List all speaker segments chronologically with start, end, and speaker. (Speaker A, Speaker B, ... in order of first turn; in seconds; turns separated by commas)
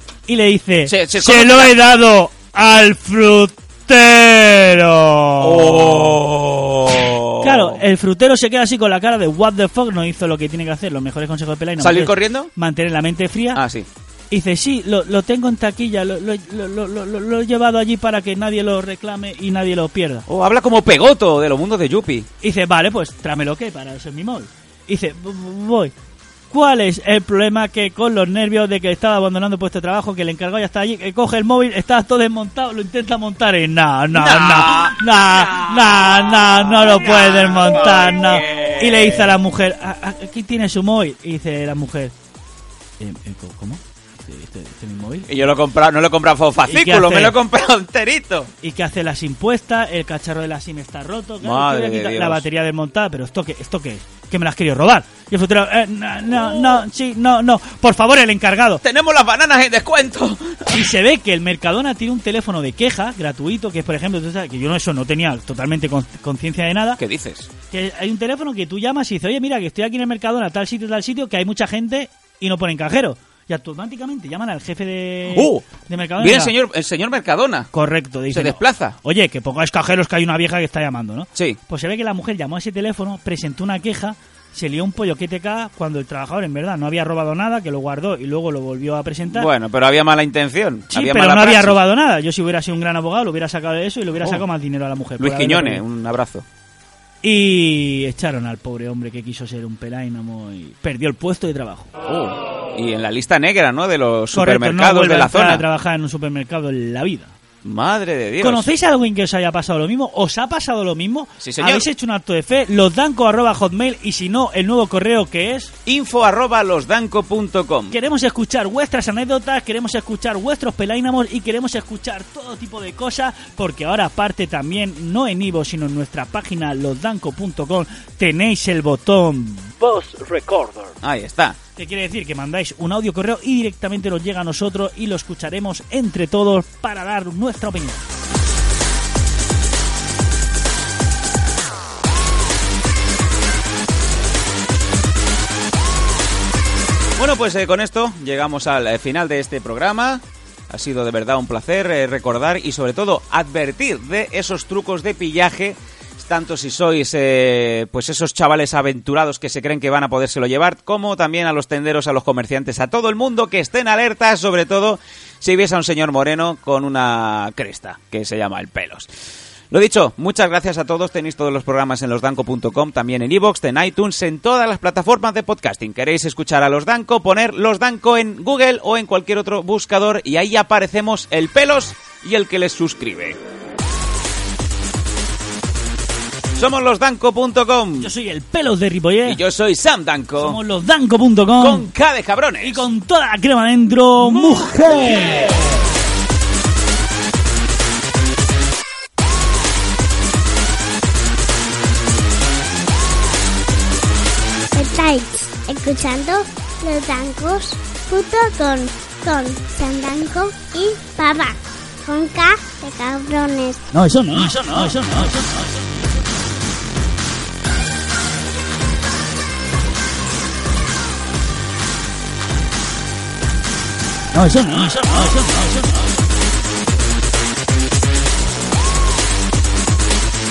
Speaker A: 0.3-6.2, Speaker B: 0.9-1.8, Speaker B: 5.4-7.8, Speaker A: 7.4-13.6, Speaker B: 11.8-12.5, Speaker B: 13.5-13.9, Speaker A: 14.3-20.2, Speaker B: 20.3-22.3, Speaker A: 22.4-25.9, Speaker A: 26.5-42.1, Speaker B: 34.1-39.3, Speaker A: 43.0-45.5, Speaker B: 45.3-48.5, Speaker A: 46.7-47.4, Speaker A: 48.6-58.8, Speaker B: 51.4-52.5, Speaker B: 56.3-56.8, Speaker B: 58.8-60.9, Speaker A: 60.7-67.0, Speaker B: 67.0-67.5, Speaker A: 67.7-76.5, Speaker B: 75.3-75.7, Speaker B: 76.2-77.7, Speaker A: 77.7-89.5, Speaker B: 78.3-79.0, Speaker B: 89.3-91.8, Speaker A: 90.9-95.8, Speaker B: 94.2-94.4, Speaker B: 95.2-96.4, Speaker A: 97.2-101.9, Speaker B: 102.1-105.7, Speaker A: 104.3-107.3, Speaker B: 107.6-108.7, Speaker A: 108.4-115.7, Speaker B: 111.4-111.9, Speaker B: 115.8-117.9, Speaker A: 117.9-130.9, Speaker B: 131.0-131.6, Speaker A: 131.8-138.1, Speaker B: 147.2-169.1, Speaker B: 169.7-183.4, Speaker B: 186.6-188.1, Speaker A: 188.0-189.4, Speaker B: 189.2-190.6, Speaker A: 190.4-191.9, Speaker B: 191.6-192.9, Speaker A: 192.6-195.7, Speaker B: 194.2-195.6, Speaker C: 204.7-213.8, Speaker A: 213.9-215.4, Speaker A: 224.3-225.9